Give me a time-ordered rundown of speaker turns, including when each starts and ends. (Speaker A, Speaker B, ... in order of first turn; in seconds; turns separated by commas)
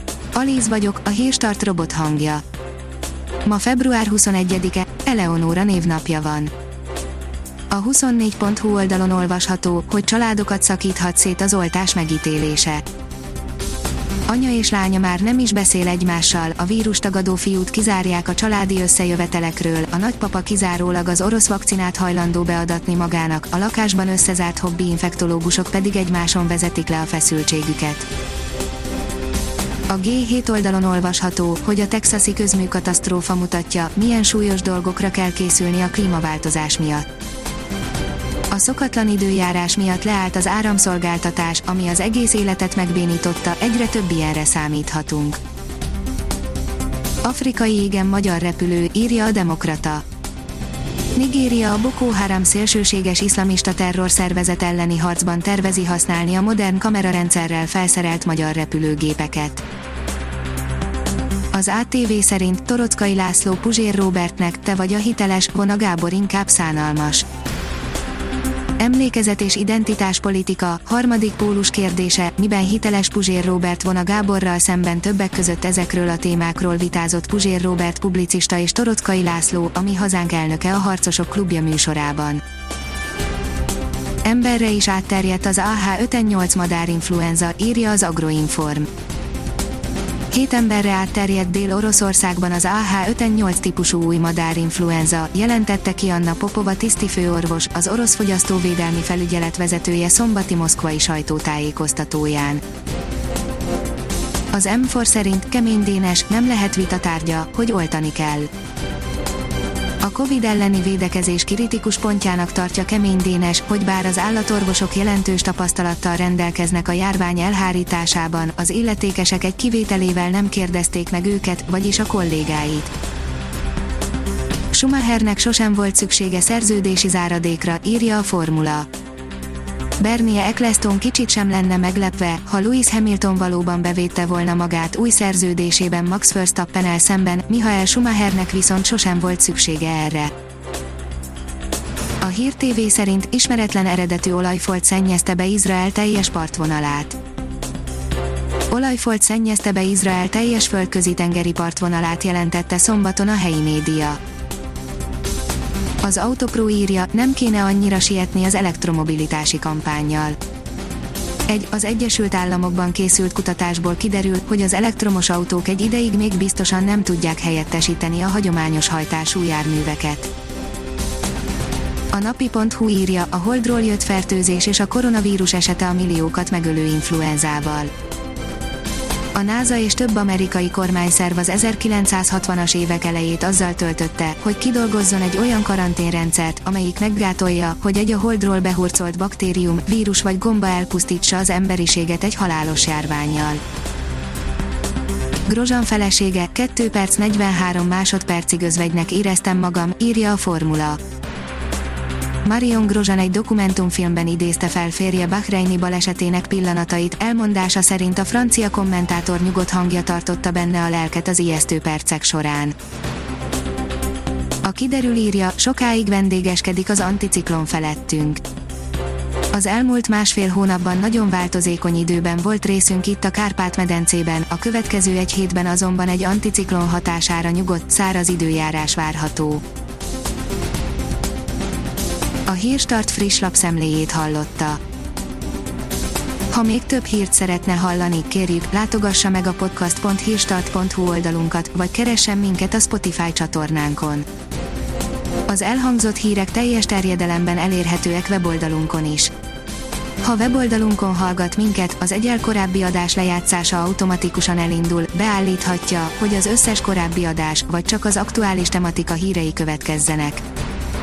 Speaker A: 0.3-2.4, Speaker A: 3.5-6.5, Speaker A: 7.7-12.8, Speaker A: 14.3-28.1, Speaker A: 29.9-37.1, Speaker A: 38.5-45.4, Speaker A: 47.2-50.0, Speaker A: 51.2-59.6, Speaker A: 61.5-67.3, Speaker A: 68.8-82.4, Speaker A: 84.2-88.9, Speaker A: 90.3-102.6, Speaker A: 104.5-108.5, Speaker A: 110.0-122.9, Speaker A: 124.7-128.9, Speaker A: 130.0-140.3, Speaker A: 142.2-147.2, Speaker A: 148.7-154.2, Speaker A: 156.0-160.4, Speaker A: 161.5-170.3, Speaker A: 172.1-177.9, Speaker A: 179.3-193.6, Speaker A: 195.5-201.0, Speaker A: 202.4-212.8, Speaker A: 214.6-218.4, Speaker A: 219.5-229.6, Speaker A: 232.5-234.8, Speaker A: 236.5-244.3, Speaker A: 245.5-249.3, Speaker A: 250.2-260.4